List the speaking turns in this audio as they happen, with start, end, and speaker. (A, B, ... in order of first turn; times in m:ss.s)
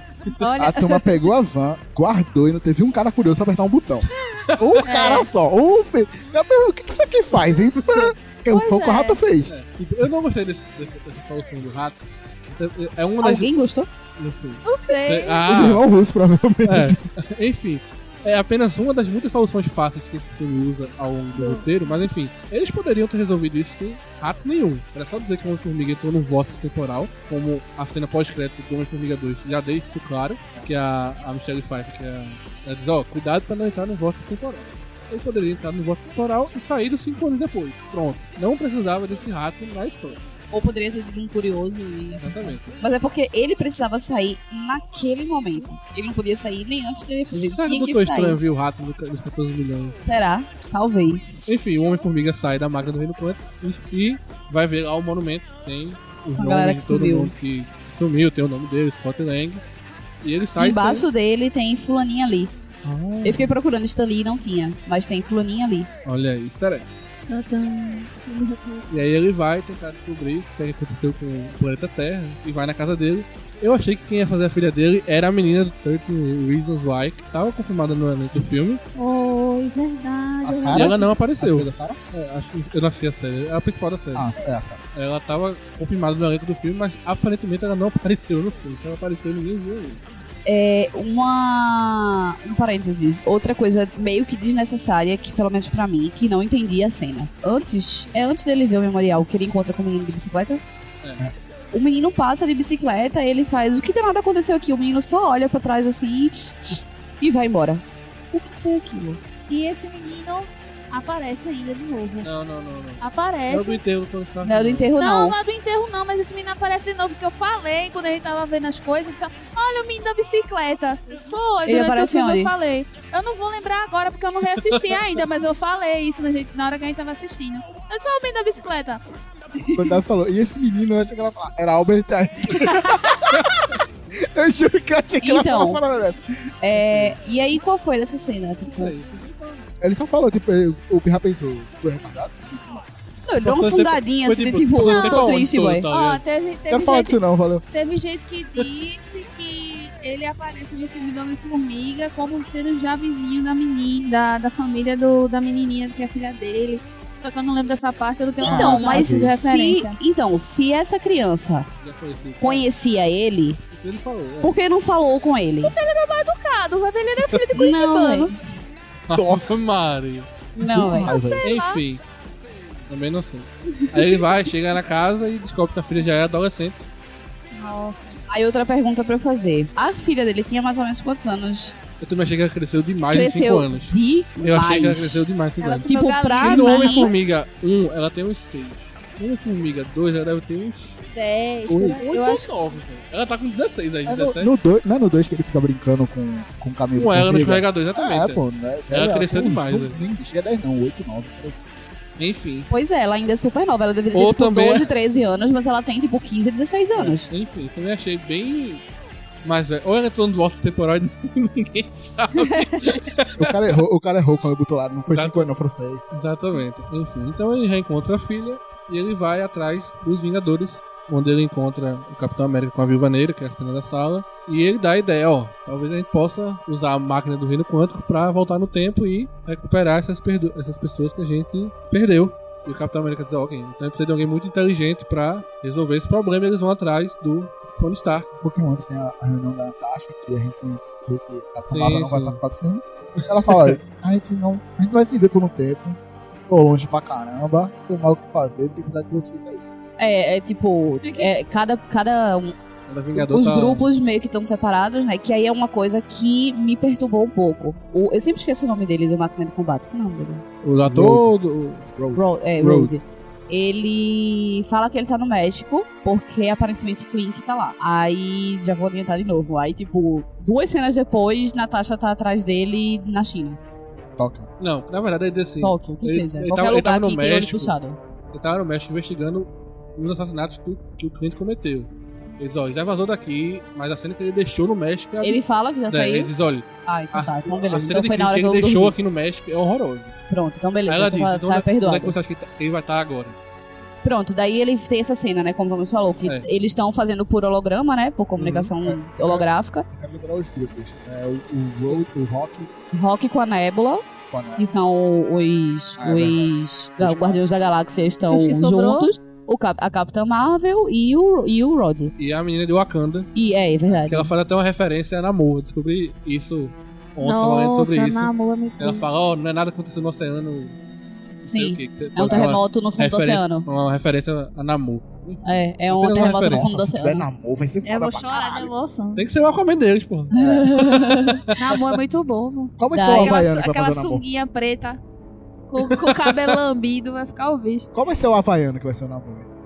0:00.3-0:01.3 A
0:00.6-0:09.5 B
0:04.3-0:04.7 C
0:04.8-0:05.3 A
0:08.5-0:09.2 A
0:09.4-0:13.5 C
0:13.2-0:13.9 D
0:14.2-0:15.8 C
0:14.6-0:15.4 A
0:15.5-0:17.0 B
0:16.6-0:40.2 C
0:21.3-0:21.7 A
0:40.5-0:48.4 D
0:42.2-0:42.8 C
0:47.3-0:50.0 C
0:50.0-0:51.4 D
0:51.4-0:59.6 C
0:56.4-0:57.3 D
1:00.2-1:01.1 C
1:00.6-1:02.5 D
1:02.8-1:03.5 C
1:03.2-1:05.9 D
1:06.0-1:06.9 C
1:07.3-1:08.8 A
1:08.9-1:18.8 C
1:18.9-1:21.1 A
1:20.4-1:22.0 B
1:20.7-1:24.3 C
1:24.1-1:24.8 B
1:24.9-1:30.0 C
1:30.4-1:40.6 D
1:41.0-1:41.3 C
1:41.7-1:49.2 D
1:49.5-1:52.3 A
1:52.2-1:54.9 C
1:53.0-1:53.8 A
1:54.4-1:55.4 D
1:55.0-2:09.0 A
2:01.6-2:02.5 D
2:04.5-2:05.0 C
2:09.6-2:10.0 A
2:09.7-2:17.2 B
2:12.6-2:13.0 A
2:15.2-2:15.8 D
2:16.6-2:18.9 D
2:18.7-2:19.6 C
2:19.8-2:22.8 B
2:23.3-2:25.9 D
2:23.4-2:26.2 C
2:24.8-2:25.3 A
2:25.9-2:27.2 A
2:26.7-2:27.6 B
2:27.7-2:40.0 A
2:38.4-2:39.4 B
2:38.4-2:41.7 D
2:41.8-2:42.7 C
2:42.4-2:43.6 D
2:43.7-2:44.6 C
2:44.4-2:45.7 D
2:45.6-2:48.3 A
2:47.5-2:48.4 D
2:49.1-2:50.5 C
2:49.1-2:49.6 B
2:50.5-2:51.4 B
2:50.6-2:51.1 D
2:50.8-2:51.8 A
2:51.4-2:52.0 C
2:52.9-2:56.9 C
2:57.5-2:58.2 A
2:58.3-3:01.7 D
3:02.0-3:11.0 C
3:03.1-3:05.3 D
3:05.6-3:07.1 A
3:05.9-3:07.1 D
3:11.1-3:12.5 A
3:11.7-3:12.0 B
3:12.0-3:14.5 C
3:14.0-3:21.6 B
3:16.9-3:20.0 C
3:22.2-3:22.7 C
3:22.7-3:27.3 D
3:24.1-3:24.9 C
3:26.9-3:28.8 C
3:29.4-3:33.8 C
3:32.4-3:33.0 A
3:33.4-3:36.2 B
3:35.1-3:35.5 C
3:36.1-3:58.3 C
3:58.4-4:09.6 B
4:01.7-4:02.4 C
4:03.2-4:03.8 C
4:10.0-4:12.5 D
4:11.0-4:11.3 A
4:12.9-4:13.9 C
4:13.1-4:20.4 D
4:20.6-4:21.9 C
4:20.8-4:21.3 B
4:21.9-4:22.2 B
4:22.1-4:33.6 D
4:22.6-4:22.9 C
4:34.2-4:34.5 B
4:34.6-4:37.7 C
4:35.6-4:38.0 D
4:38.3-4:50.2 C
4:45.2-4:46.3 D
4:46.8-4:48.9 D
4:50.3-4:52.2 D
4:50.8-4:53.4 C
4:54.0-4:59.8 D
4:58.4-4:58.7 C
4:58.8-5:02.7 B
5:02.9-5:04.0 D
5:04.3-5:04.7 B
5:04.6-5:12.1 D
5:06.0-5:07.5 B
5:08.3-5:09.1 A
5:12.2-5:13.3 C
5:13.3-5:14.3 D
5:14.0-5:20.8 C
5:17.2-5:19.0 A
5:21.4-5:26.7 C
5:21.4-5:23.7 D
5:22.2-5:22.5 B
5:25.4-5:27.2 D
5:26.4-5:28.7 B
5:27.8-5:29.2 A
5:29.2-5:31.9 C
5:30.3-5:31.4 D
5:30.4-5:30.7 B
5:31.6-5:35.0 A
5:32.8-5:34.2 B
5:32.9-5:33.4 D
5:35.7-5:37.9 A
5:35.8-5:36.6 C
5:37.9-5:39.5 B